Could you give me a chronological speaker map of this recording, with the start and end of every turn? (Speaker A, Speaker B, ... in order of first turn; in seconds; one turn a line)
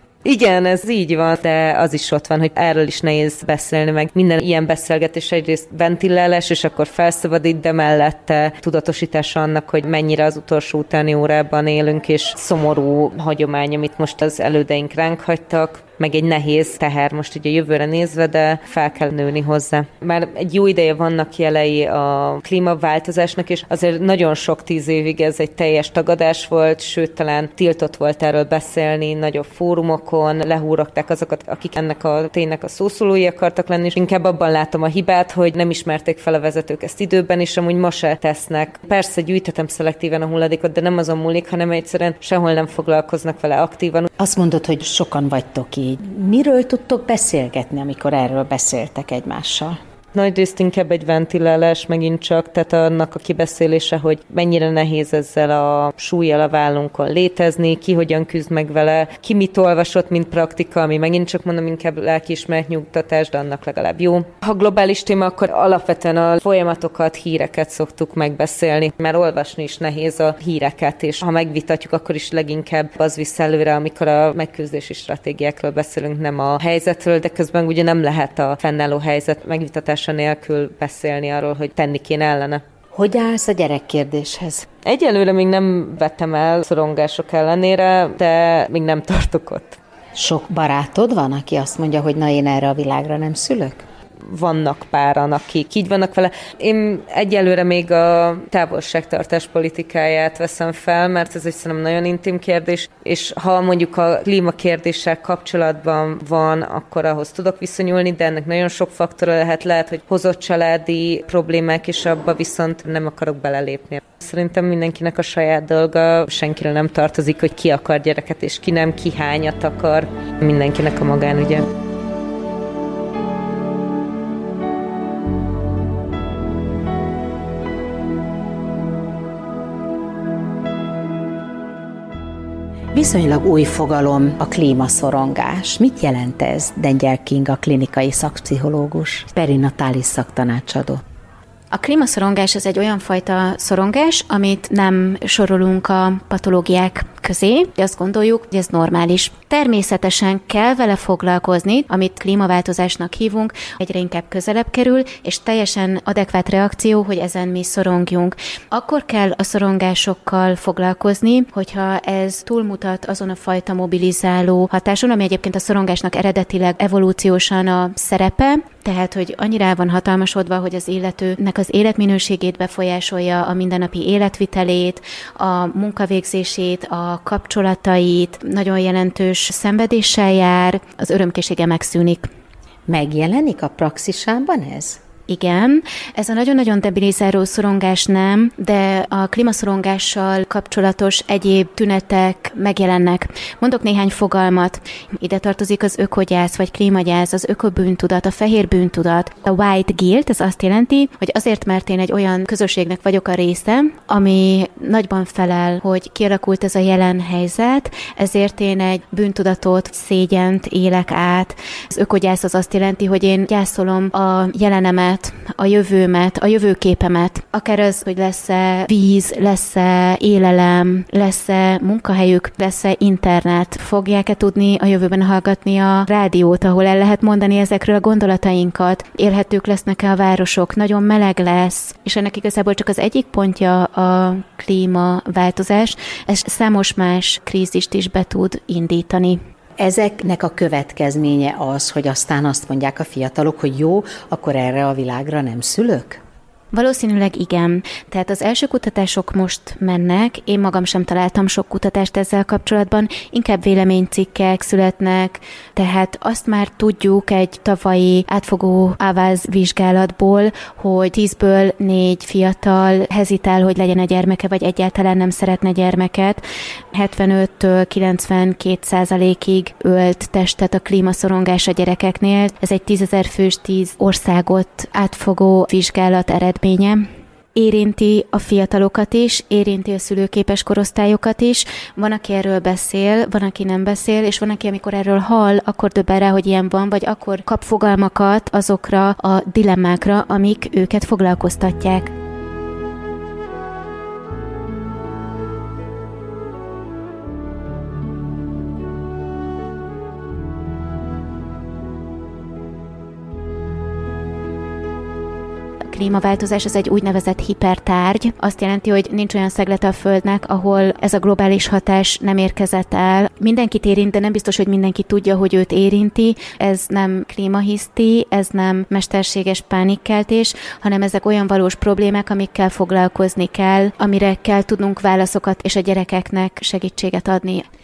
Speaker A: 0.2-44.1
Speaker B: 44.2-49.8
Speaker A: 50.1-82.6
Speaker B: 82.9-84.7
Speaker A: 84.8-89.8
Speaker B: 90.2-93.8
Speaker A: 94.3-121.7
Speaker B: 132.9-141.0
Speaker C: 141.7-182.3
Speaker B: 182.9-185.0
Speaker C: 185.3-239.4
Speaker B: 239.8-246.2
Speaker C: 246.7-266.4
Speaker C: 266.9-292.1
Speaker C: 305.9-327.7